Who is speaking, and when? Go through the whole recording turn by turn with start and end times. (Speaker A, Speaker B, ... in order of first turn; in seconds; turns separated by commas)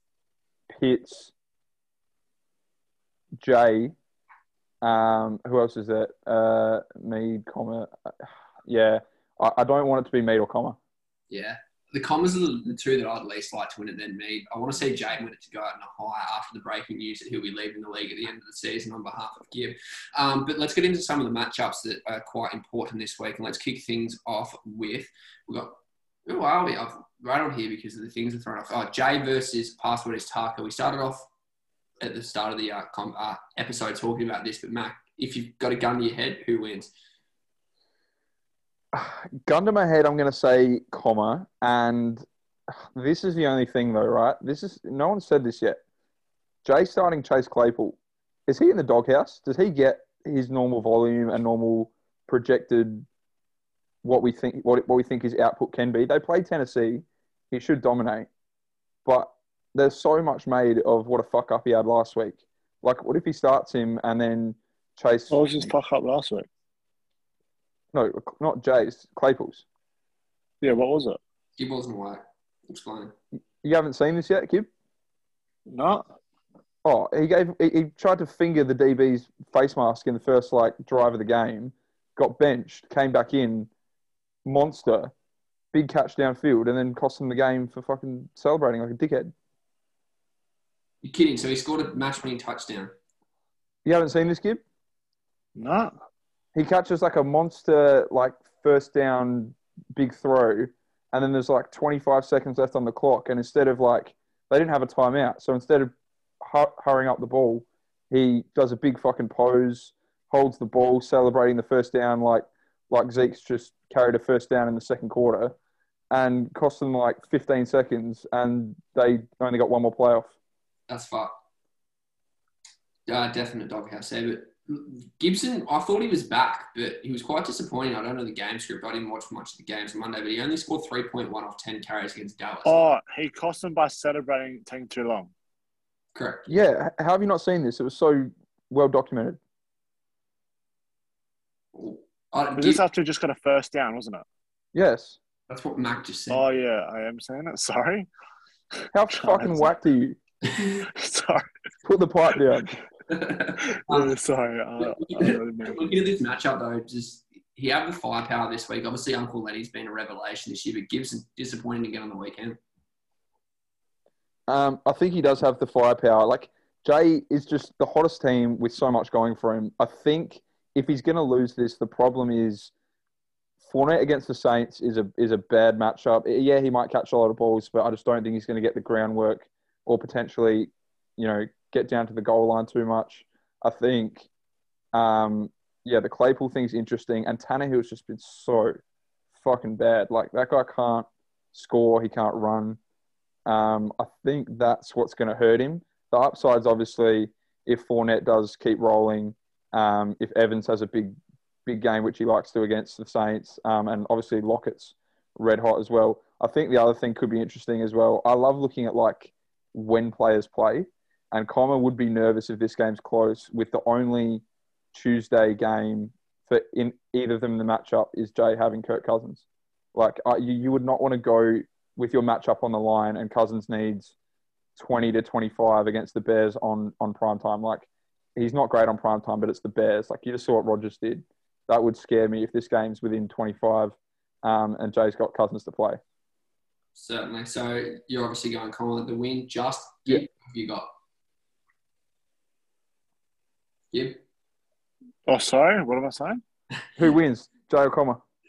Speaker A: 0.7-1.3, Speaker A: 3.4-3.9, Speaker A: 4.8-10.8, Speaker B: 11.3-31.3, Speaker B: 32.0-36.9, Speaker A: 38.9-45.8, Speaker A: 46.6-53.0, Speaker A: 54.0-58.3, Speaker A: 59.0-65.7, Speaker C: 65.3-66.5, Speaker A: 67.9-69.6, Speaker C: 70.6-71.2, Speaker B: 71.6-73.1, Speaker A: 73.6-74.7, Speaker C: 75.7-76.1, Speaker A: 76.8-83.7, Speaker A: 84.4-85.1, Speaker A: 85.7-89.3, Speaker B: 91.0-92.9, Speaker A: 93.8-94.6, Speaker C: 95.5-95.9, Speaker A: 96.5-115.5, Speaker A: 116.1-120.3, Speaker B: 120.9-121.3, Speaker B: 123.1-132.8, Speaker C: 132.6-135.3, Speaker B: 136.1-136.6, Speaker A: 136.5-139.4, Speaker B: 141.7-142.8, Speaker C: 142.6-144.2, Speaker A: 144.7-145.2, Speaker B: 145.5-146.4, Speaker C: 146.3-148.1, Speaker C: 148.8-149.7, Speaker A: 148.9-150.2, Speaker C: 150.8-151.5, Speaker A: 151.8-152.7, Speaker B: 153.1-154.1, Speaker C: 153.9-155.9, Speaker B: 154.8-162.6, Speaker A: 164.5-172.7, Speaker A: 173.6-184.3, Speaker A: 184.9-188.8, Speaker A: 189.4-192.8, Speaker A: 193.4-201.1, Speaker A: 201.7-224.1, Speaker A: 224.8-236.0, Speaker B: 236.9-240.9, Speaker B: 243.9-244.2, Speaker C: 245.3-246.4, Speaker A: 247.0-248.2